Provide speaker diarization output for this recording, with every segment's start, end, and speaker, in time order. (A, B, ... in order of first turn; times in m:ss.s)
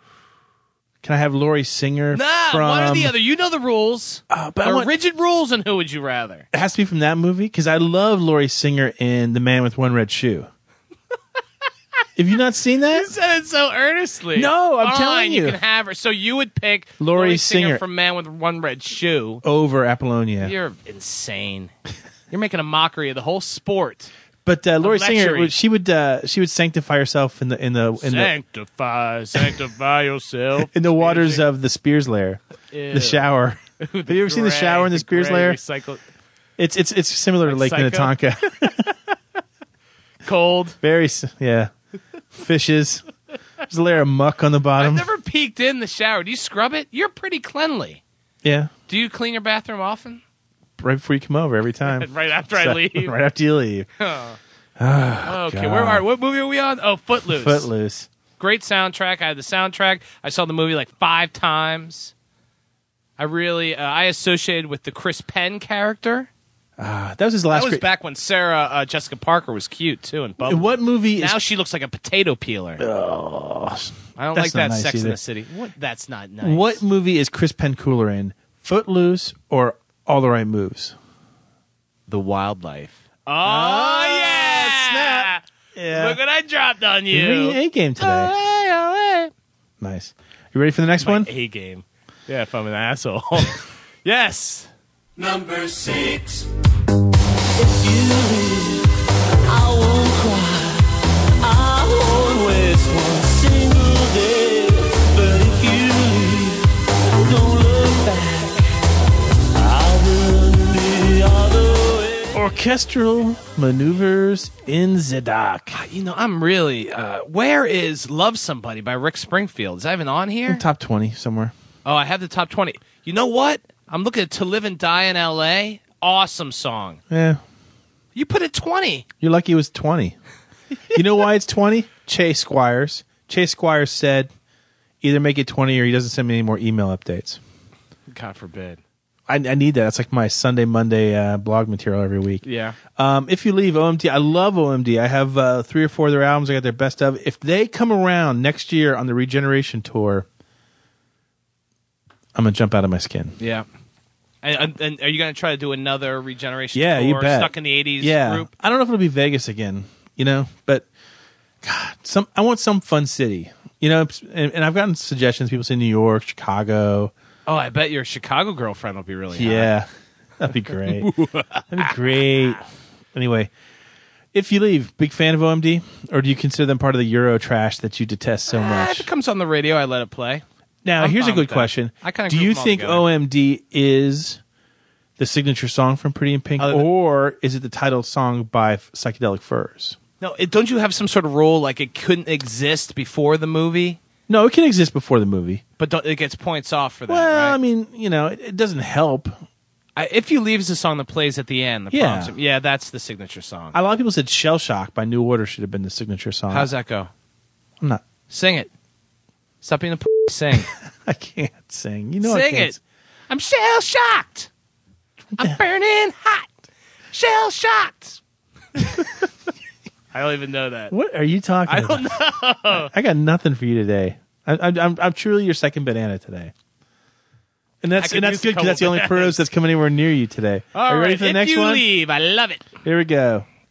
0:01.0-0:03.1 A
0:02.1-0:06.4 B
0:04.3-0:04.9 A
0:06.5-0:10.5 A
0:12.2-0:13.1 A
0:12.9-0:19.4 B
0:14.3-0:15.6 A
0:17.0-0:17.8 A
0:19.4-0:20.5 A
0:20.4-0:21.7 B
0:22.3-0:24.1 B
0:24.4-0:28.3 A
0:24.8-0:25.5 B
0:28.0-0:31.4 B
0:30.6-0:35.6 A
0:32.7-0:33.2 B
0:33.8-0:36.0 B
0:36.6-0:39.0 A
0:37.4-0:38.1 B
0:40.2-0:40.8 B
0:40.8-0:41.7 A
0:42.3-0:43.0 A
0:43.7-0:45.1 A
0:44.8-0:48.0 B
0:48.4-0:48.7 A
0:48.9-0:50.2 B
0:50.8-0:53.9 A
0:51.9-0:53.1 B
0:54.0-0:54.4 B
0:54.8-0:56.0 A
0:55.2-0:57.7 B
0:57.3-0:58.1 A
0:58.4-1:02.1 B
1:03.2-1:06.3 B
1:06.8-1:07.8 A
1:07.5-1:12.8 B
1:10.4-1:11.4 A
1:12.8-1:15.2 A
1:14.2-1:16.8 B
1:16.4-1:21.0 A
1:22.1-1:29.3 B
1:23.4-1:26.2 A
1:27.1-1:28.3 A
1:29.8-1:31.3 A
1:31.0-1:34.7 B
1:35.2-1:36.3 C
1:37.6-1:38.8 C
1:39.5-1:40.8 C
1:41.4-1:46.6 C
1:47.2-1:48.6 C
1:49.6-1:52.2 C
1:52.3-1:55.8 A
1:55.7-2:00.6 B
2:00.5-2:01.5 A
2:01.8-2:07.0 B
2:07.1-2:07.4 A
2:08.1-2:09.0 B
2:09.2-2:10.2 A
2:10.9-2:14.3 A
2:15.0-2:17.4 A
2:18.1-2:18.8 B
2:19.3-2:30.2 A
2:22.4-2:22.8 B
2:32.3-2:33.4 A
2:33.4-2:33.6 B
2:34.4-2:38.5 B
2:36.7-2:40.8 A
2:41.6-2:47.1 A
2:47.4-2:49.7 B
2:49.3-2:49.9 A
2:50.4-2:51.1 A
2:50.8-2:52.0 B
2:51.7-2:52.6 A
2:53.1-2:53.5 A
2:54.3-2:59.1 A
2:58.5-3:00.4 B
3:00.8-3:04.4 A
3:01.0-3:03.1 B
3:05.2-3:10.0 A
3:06.6-3:06.9 B
3:10.2-3:14.0 B
3:14.3-3:15.6 A
3:15.8-3:17.6 B
3:17.1-3:19.4 A
3:20.0-3:23.8 B
3:21.9-3:22.3 A
3:23.7-3:26.7 A
3:26.5-3:27.1 B
3:28.3-3:28.7 B
3:29.6-3:30.7 B
3:31.0-3:32.8 A
3:32.2-3:32.8 B
3:33.3-3:34.5 B
3:35.4-3:36.5 B
3:37.1-3:38.2 B
3:40.1-3:40.9 B
3:40.9-3:42.2 A
3:41.7-3:42.9 B
3:42.7-3:46.5 A
3:47.8-3:51.8 A
3:48.0-3:49.4 B
3:50.7-3:52.7 B
3:52.8-3:53.4 A